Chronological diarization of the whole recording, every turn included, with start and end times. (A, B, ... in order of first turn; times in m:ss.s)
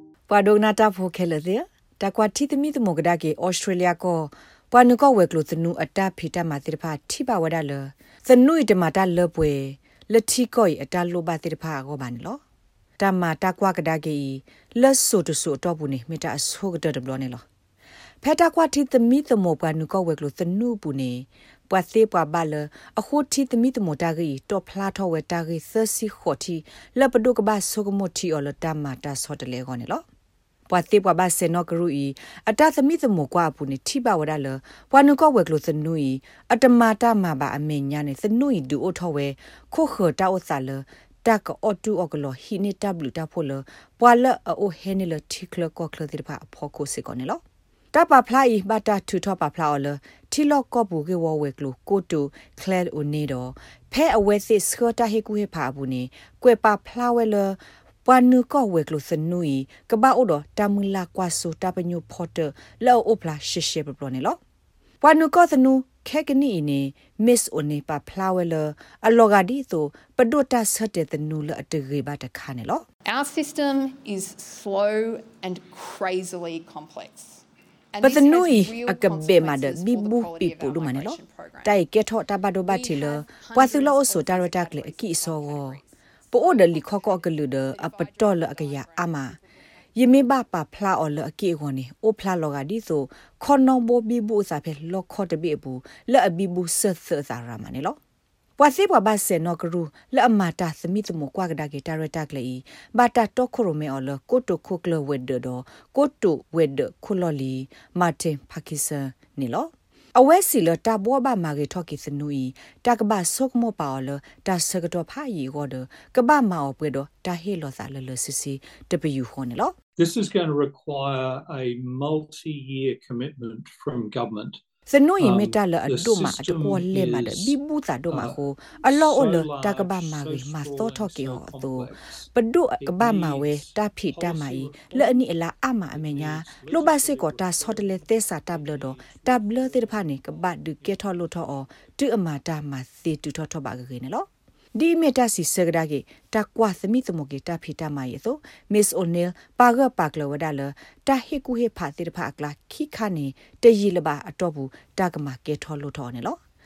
0:00.3-0:12.4 A
0:13.0-0:17.4 A
0:18.2-0:30.0 A
0:30.7-0:47.4 A
0:47.9-1:04.4 A
1:05.0-1:12.8 A
1:13.0-1:21.8 B
1:18.0-1:25.8 A
1:22.7-1:29.6 B
1:26.3-1:29.4 A
1:29.9-1:38.0 A
1:38.6-1:59.7 A
2:00.0-2:04.6 C
2:04.9-2:36.4 A
2:05.2-2:07.5 C
2:08.1-2:12.3 C
2:12.8-2:15.2 C
2:15.9-2:21.6 C